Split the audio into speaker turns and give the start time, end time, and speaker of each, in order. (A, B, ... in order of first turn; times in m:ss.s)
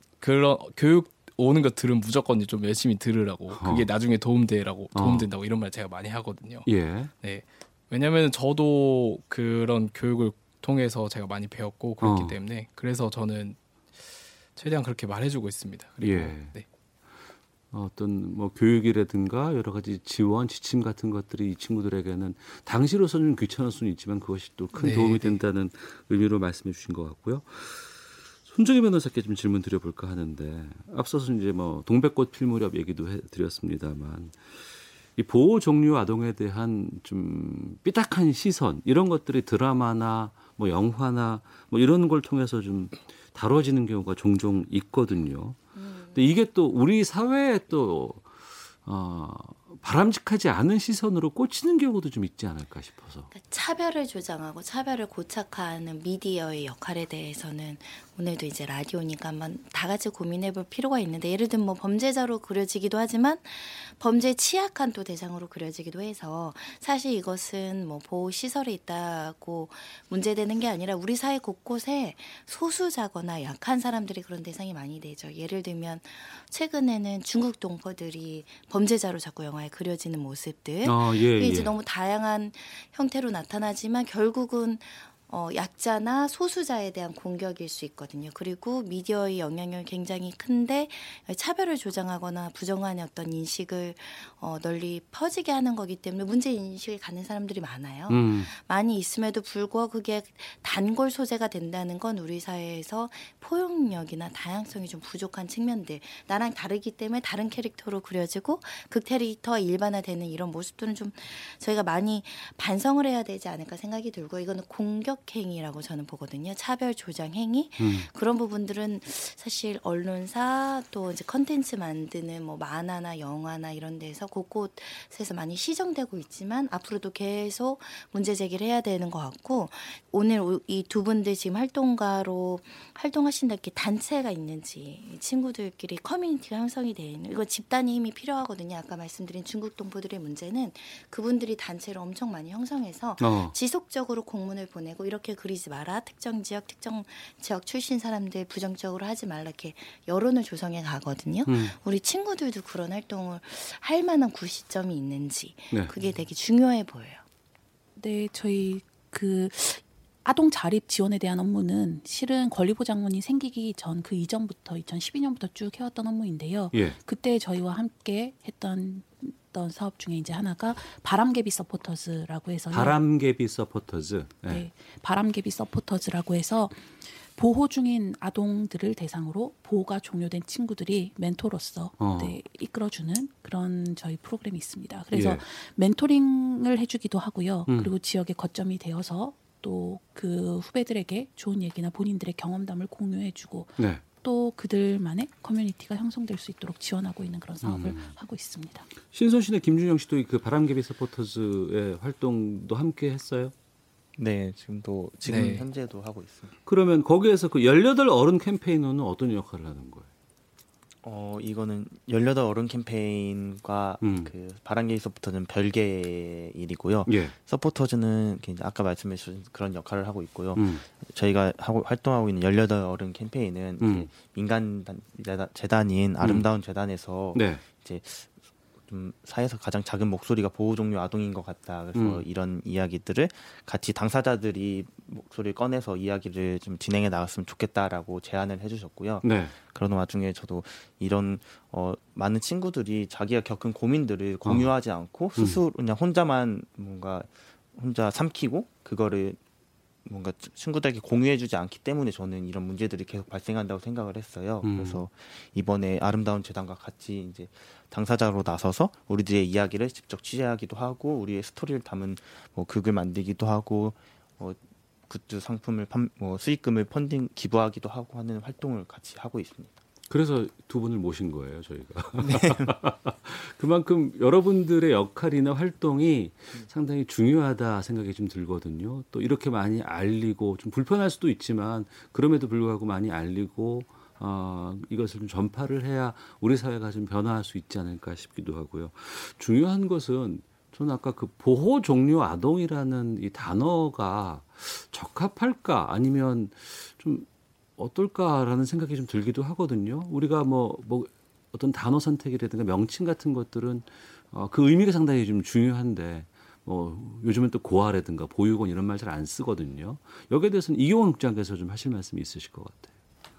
0:00.2-0:06.7 A
0:03.5-0:03.9 B
0:04.9-0:05.3 B
0:06.6-0:07.1 B
0:07.2-0:13.6 A
0:12.0-0:12.4 B
0:14.6-0:16.6 A
0:16.0-0:16.5 B
0:17.7-0:45.6 B
0:24.7-0:25.4 A
0:45.8-0:46.3 C
0:46.1-0:48.3 B
0:48.8-0:53.3 B
0:53.3-2:37.2 C
1:20.8-1:21.7 B
1:38.1-1:38.5 B
1:57.8-1:58.1 B
2:23.2-2:23.5 B
2:31.4-2:31.8 B
2:38.0-2:53.0 D
2:46.7-2:47.0 B
2:52.7-2:54.7 B
2:54.5-3:18.9 D
3:02.0-3:02.4 B
3:05.1-3:05.4 B
3:07.7-3:07.9 B
3:13.8-3:14.0 B
3:17.6-3:18.2 B
3:19.0-3:23.5 B
3:24.2-3:26.5 E
3:25.2-3:25.7 A
3:26.6-3:30.1 B
3:31.0-3:48.3 E
3:34.0-3:34.3 B
3:37.0-3:37.3 B
3:40.6-3:40.8 B
3:43.8-3:44.1 B
3:47.3-3:47.6 B
3:48.8-4:09.4 E
3:51.9-3:52.2 B
3:59.2-3:59.6 B
4:10.0-4:29.8 E
4:14.6-4:15.0 B
4:30.1-5:12.9 B
4:32.2-4:32.7 E